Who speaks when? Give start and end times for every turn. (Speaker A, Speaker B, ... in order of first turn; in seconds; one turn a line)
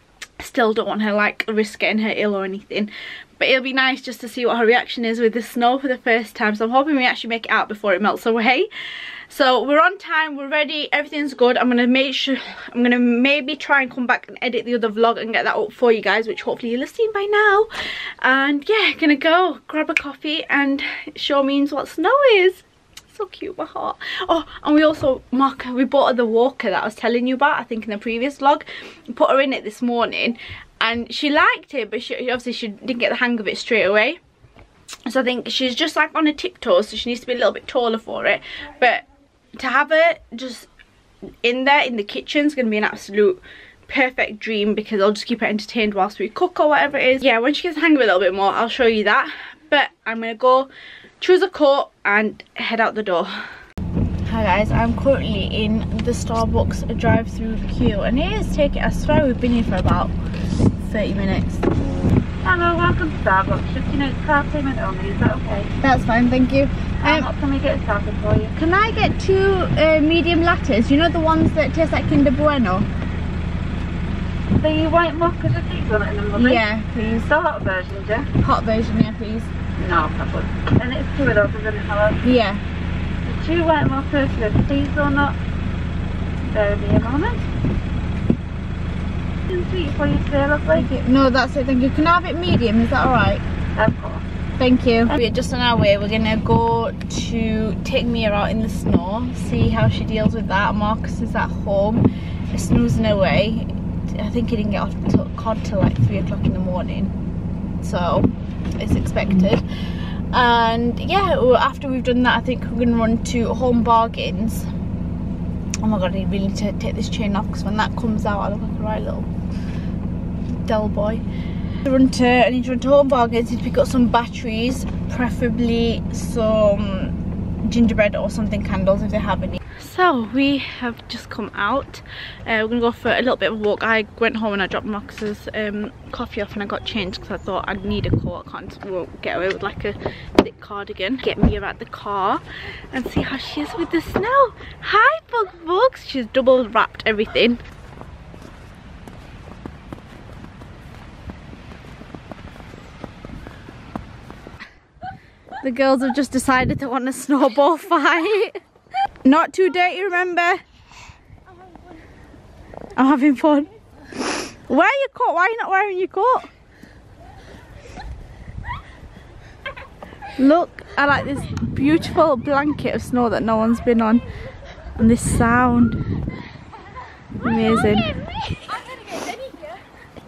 Speaker A: 0.4-8.7
Speaker A: 9.3-17.7
Speaker A: 18.2-34.2
Speaker A: 35.0-39.0
Speaker A: 39.5-40.7
Speaker A: 41.4-50.7
Speaker A: 51.2-53.4
Speaker A: 54.2-60.1
Speaker A: 60.8-61.7
Speaker B: 62.4-65.7
Speaker A: 65.8-67.3
Speaker B: 67.0-68.5
Speaker A: 68.5-72.9
Speaker B: 74.6-78.3
Speaker A: 76.4-77.2
Speaker A: 78.4-80.0
Speaker B: 79.8-82.2
Speaker A: 82.2-82.6
Speaker B: 83.2-85.3
Speaker B: 86.5-87.4
Speaker B: 89.5-90.9
Speaker A: 90.7-93.4
Speaker B: 93.8-94.2
Speaker A: 94.6-107.1
Speaker A: 107.8-109.6
Speaker A: 110.3-114.7
Speaker A: 115.8-119.3
Speaker A: 120.5-121.2
Speaker A: 121.8-147.6
Speaker A: 155.6-158.6
Speaker A: 159.2-160.6
Speaker A: 162.9-163.7
Speaker A: 164.3-166.5
Speaker A: 170.4-174.2
Speaker A: 175.0-176.0
Speaker A: 177.4-178.1
Speaker B: 177.7-179.7